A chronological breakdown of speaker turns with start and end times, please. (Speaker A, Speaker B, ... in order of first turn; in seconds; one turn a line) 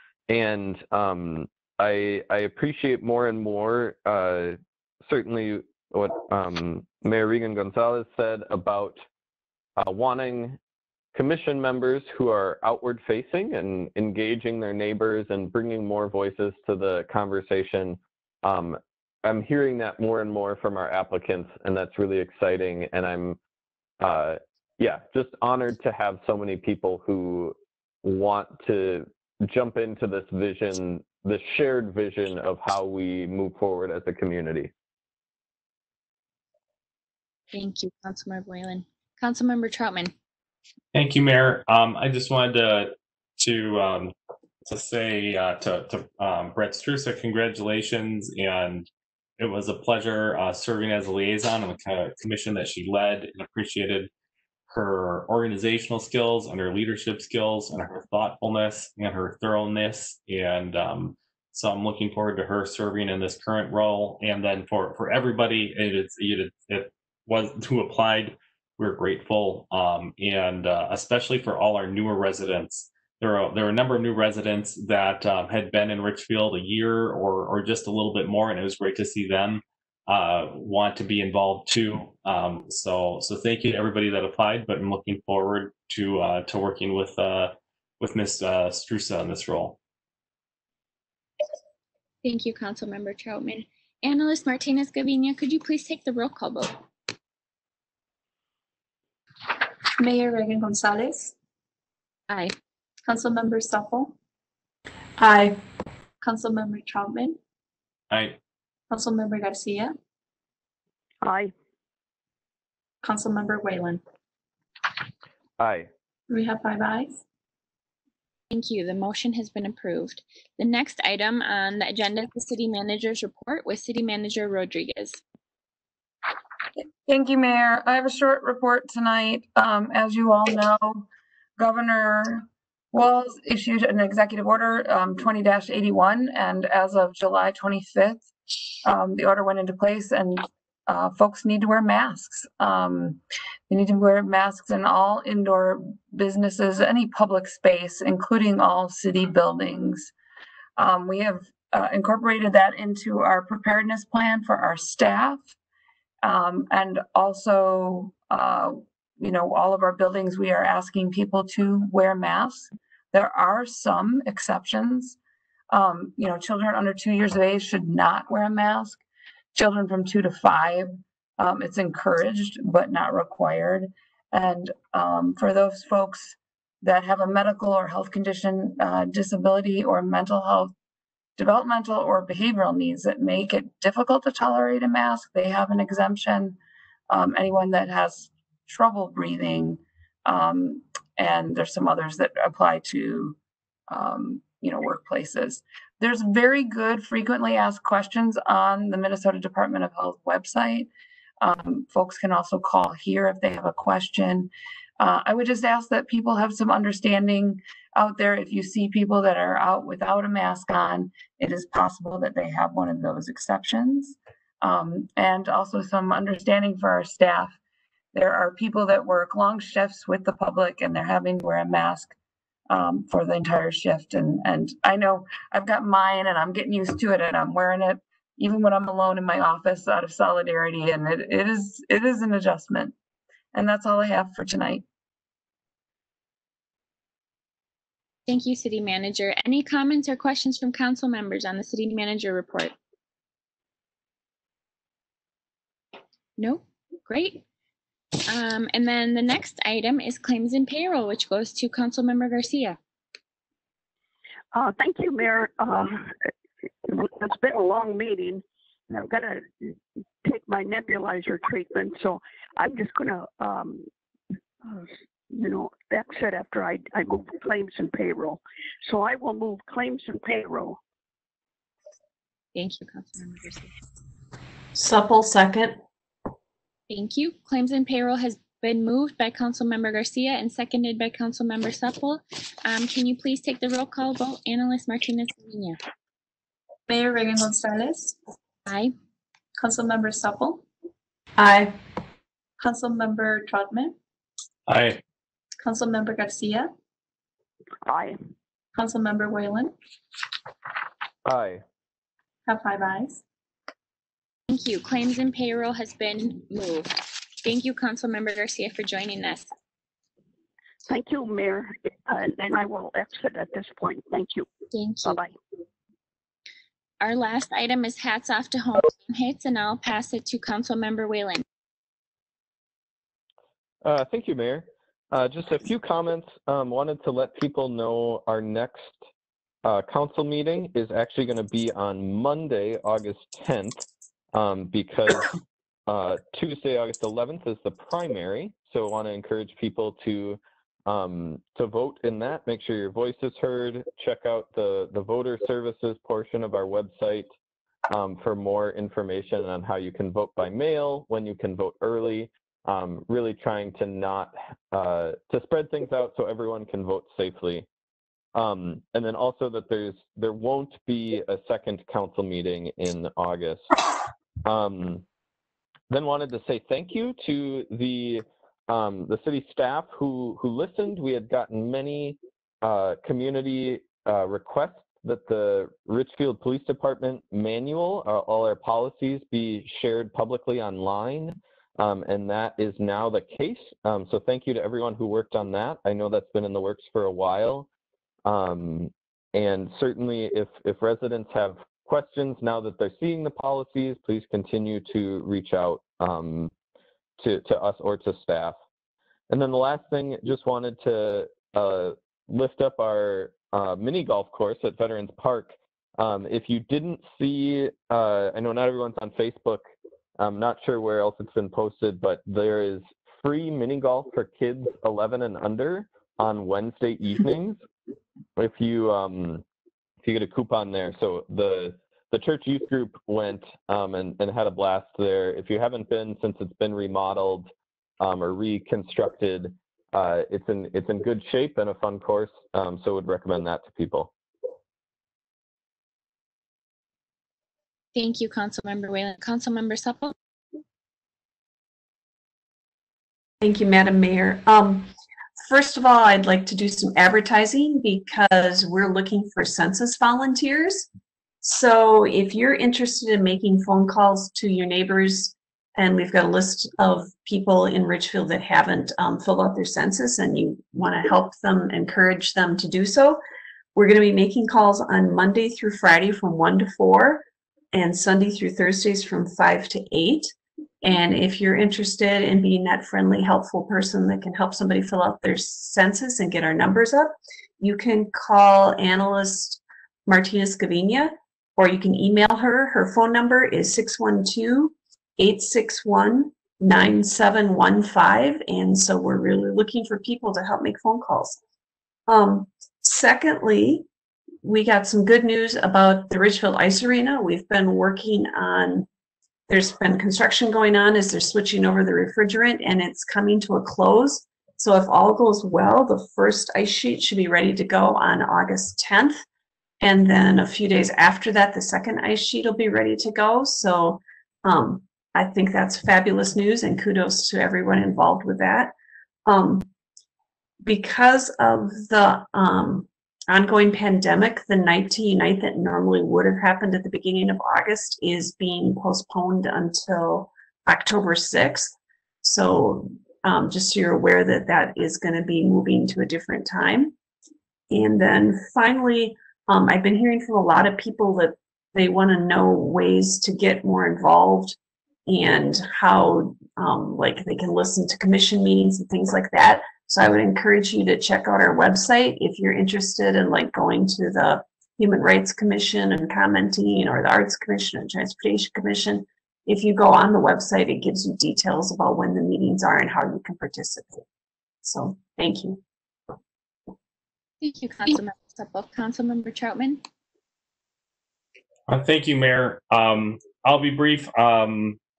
Speaker A: 0.3-9.0
Speaker A: 9.8-10.6
Speaker A: 11.1-23.4
Speaker A: 24.0-34.7
Speaker B: 37.5-40.1
Speaker C: 40.9-54.1
Speaker C: 54.7-89.8
Speaker B: 92.2-96.8
Speaker D: 100.0-101.3
Speaker B: 102.3-102.5
Speaker D: 103.0-104.2
Speaker E: 105.2-105.5
Speaker D: 106.2-107.4
Speaker C: 108.1-108.4
Speaker D: 108.9-109.9
Speaker F: 111.2-111.5
Speaker D: 113.0-114.0
Speaker A: 115.6-115.9
Speaker D: 116.3-117.2
Speaker B: 118.5-125.2
Speaker G: 127.0-138.3
Speaker G: 138.8-150.1
Speaker G: 150.8-155.5
Speaker G: 156.2-165.2
Speaker G: 165.7-169.0
Speaker G: 169.5-180.7
Speaker G: 181.4-186.6
Speaker G: 187.1-193.4
Speaker G: 193.9-200.9
Speaker G: 201.4-217.6
Speaker G: 218.1-222.1
Speaker G: 222.7-232.9
Speaker G: 233.5-234.8
Speaker B: 238.3-242.7
Speaker B: 246.4-247.4
Speaker B: 248.3-252.8
Speaker F: 254.5-256.3
Speaker F: 256.8-263.9
Speaker F: 264.6-270.8
Speaker B: 272.5-273.7
Speaker E: 274.7-275.8
Speaker B: 276.9-285.8
Speaker D: 286.9-288.2
Speaker B: 288.6-288.9
Speaker D: 289.6-290.6
Speaker E: 291.4-291.8
Speaker D: 292.6-293.9
Speaker C: 294.7-295.0
Speaker D: 295.6-296.7
Speaker F: 297.8-298.2
Speaker D: 298.7-299.7
Speaker A: 301.2-301.6
Speaker D: 302.4-303.2
Speaker B: 304.5-309.5
Speaker F: 310.9-314.5
Speaker B: 314.7-315.2
Speaker F: 315.0-315.3
Speaker B: 317.0-321.4
Speaker A: 323.8-329.0
Speaker A: 329.6-335.3
Speaker A: 335.9-347.3
Speaker A: 347.9-357.6
Speaker A: 358.3-363.7
Speaker A: 364.4-365.0
Speaker A: 365.9-387.7
Speaker A: 388.2-396.5
Speaker A: 397.2-398.6
Speaker A: 399.3-417.6
Speaker A: 418.4-419.4
Speaker A: 420.0-434.1
Speaker B: 437.9-440.1
Speaker E: 443.4-444.9
Speaker E: 445.4-450.9
Speaker E: 451.4-463.2
Speaker E: 463.7-491.4
Speaker E: 492.1-493.9
Speaker E: 494.4-498.9
Speaker E: 499.5-509.2
Speaker E: 509.8-518.7
Speaker E: 519.2-519.7
Speaker E: 520.6-537.0
Speaker E: 537.7-564.0
Speaker E: 564.6-565.6
Speaker B: 567.4-569.8
Speaker C: 571.7-574.8